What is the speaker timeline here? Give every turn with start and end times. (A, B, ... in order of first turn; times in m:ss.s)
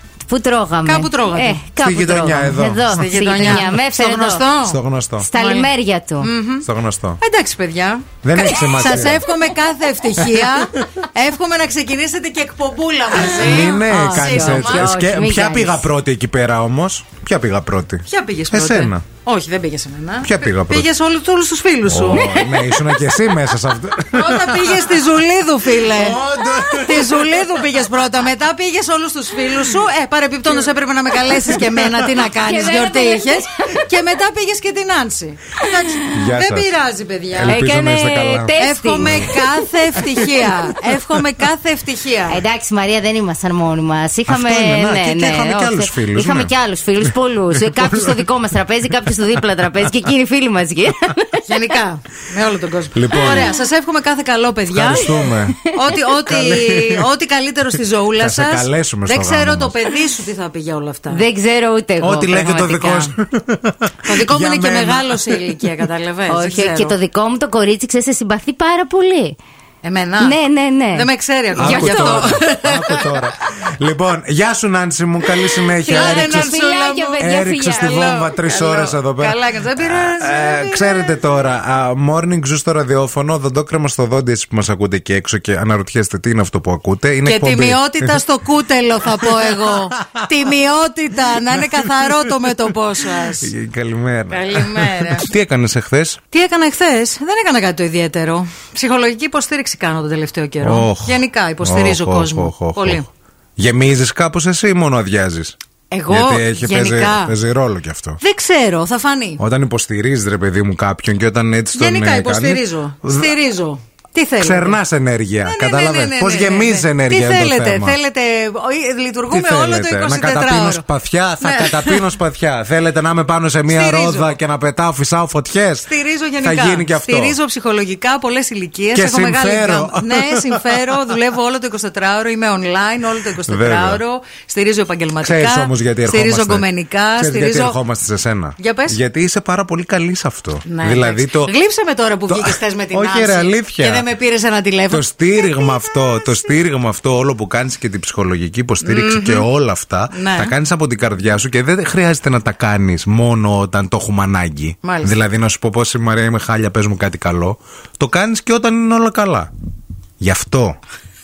0:00.3-0:04.4 A
0:00.8-0:01.6 B
0:01.8-0:03.8 C
0:02.9-0:04.8 B
0:04.6-0:05.3 C
0:05.2-0:06.3 A
0:05.3-0:06.7 B
0:06.6-0:07.2 C
0:07.2-0:15.0 B
0:08.2-0:09.3 C
0:10.2-0:10.8 C
0:13.2-0:15.9 A
0:13.2-0:19.0 C
0:18.1-0:22.5 B
0:20.2-0:20.9 C
0:21.9-0:25.0 C
0:22.2-0:23.0 A
0:24.1-0:37.7 B
0:25.6-0:27.7 C
0:31.3-0:31.9 C
0:32.1-0:33.9 A
0:36.1-0:36.7 C
0:37.3-0:39.4 C
0:37.5-0:39.6 A
0:38.6-0:42.4 B
0:40.0-0:40.5 C
0:42.3-0:51.8 A
0:44.3-0:48.3 C
0:48.9-0:50.1 C
0:51.5-1:01.2 B
0:52.9-0:53.6 C
0:54.7-0:55.6 C
0:55.1-0:55.5 A
0:56.3-0:57.1 C
0:58.2-0:59.8 C
1:01.1-1:03.2 A
1:02.0-1:05.6 C
1:04.1-1:07.0 B
1:06.3-1:09.4 A
1:09.8-1:10.4 B
1:10.2-1:12.4 A
1:10.9-1:13.2 B
1:11.6-1:16.6 C
1:15.8-1:17.2 B
1:15.8-1:18.3 A
1:17.2-1:28.3 C
1:17.8-1:21.2 B
1:27.2-1:33.5 B
1:29.2-1:30.2 C
1:31.5-1:32.5 C
1:33.2-1:36.2 C
1:34.3-1:35.3 B
1:36.3-1:43.1 B
1:40.6-1:43.0 C
1:43.6-1:45.6 C
1:45.9-1:47.4 B
1:46.1-1:48.2 C
1:48.2-1:49.4 B
1:49.4-1:53.4 C
1:51.7-1:54.8 B
1:54.4-1:58.0 C
1:55.4-2:00.9 B
1:59.3-2:07.4 C
2:01.4-2:02.1 B
2:03.7-2:04.4 B
2:05.9-2:17.8 B
2:08.9-2:11.0 C
2:13.4-2:14.0 C
2:15.2-2:21.5 C
2:18.6-2:19.0 B
2:20.7-2:25.1 B
2:22.3-2:24.1 C
2:24.9-2:39.5 C
2:28.8-2:29.5 B
2:30.1-2:30.5 B
2:34.8-2:35.1 B
2:40.2-2:40.8 C